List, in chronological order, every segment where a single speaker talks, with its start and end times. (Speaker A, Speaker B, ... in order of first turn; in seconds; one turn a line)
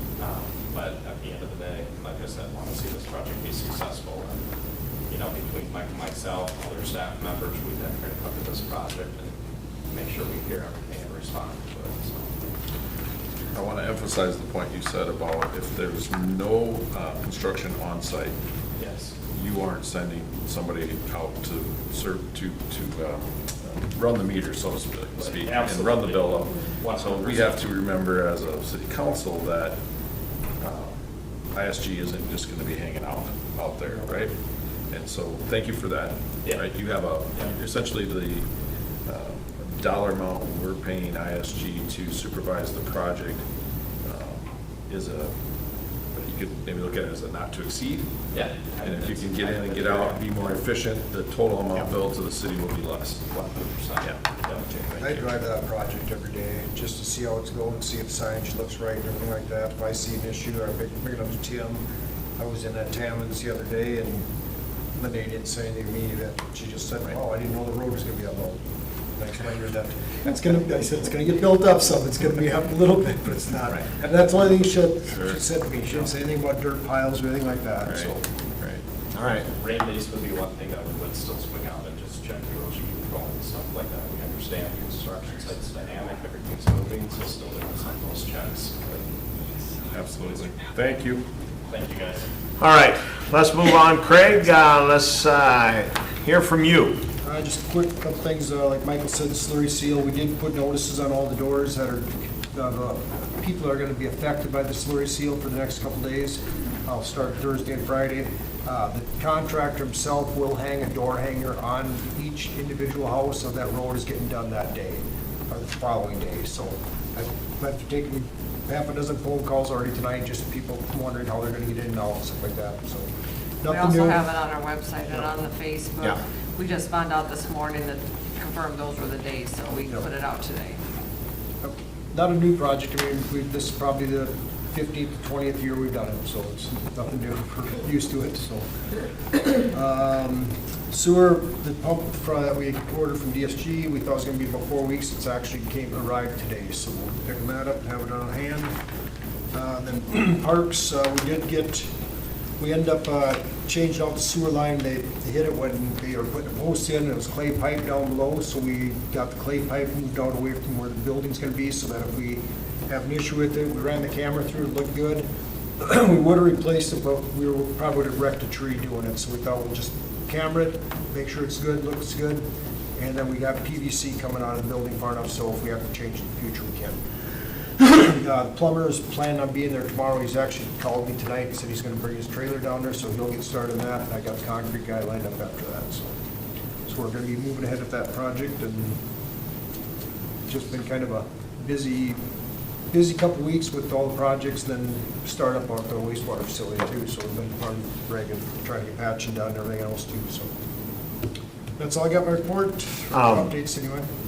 Speaker A: 0.2-4.4
Speaker A: 5.1-9.3
Speaker A: 9.9-12.3
Speaker B: 13.5-18.3
Speaker A: 18.8-19.2
Speaker B: 19.3-29.8
Speaker A: 25.2-27.6
Speaker B: 30.6-31.0
Speaker B: 31.5-34.3
Speaker B: 34.9-38.5
Speaker B: 39.1-43.4
Speaker B: 44.0-45.3
Speaker B: 46.1-48.1
Speaker A: 48.3-50.6
Speaker B: 48.8-53.2
Speaker A: 53.3-55.3
Speaker C: 55.0-61.8
Speaker C: 62.4-64.3
Speaker C: 65.0-68.6
Speaker C: 69.2-78.2
Speaker D: 79.1-79.5
Speaker A: 79.5-89.2
Speaker B: 89.9-91.2
Speaker A: 91.7-92.3
Speaker D: 92.6-97.0
Speaker C: 97.2-123.1
Speaker C: 123.6-124.3
Speaker E: 123.7-130.8
Speaker C: 131.6-138.6
Speaker C: 139.3-148.7
Speaker C: 149.5-151.9
Speaker C: 152.6-165.2
Speaker C: 165.8-172.4
Speaker C: 172.9-177.0
Speaker C: 177.8-186.1
Speaker C: 186.9-189.0
Speaker C: 190.5-192.2
Speaker C: 192.9-200.5
Speaker C: 201.8-204.1
Speaker D: 203.1-203.5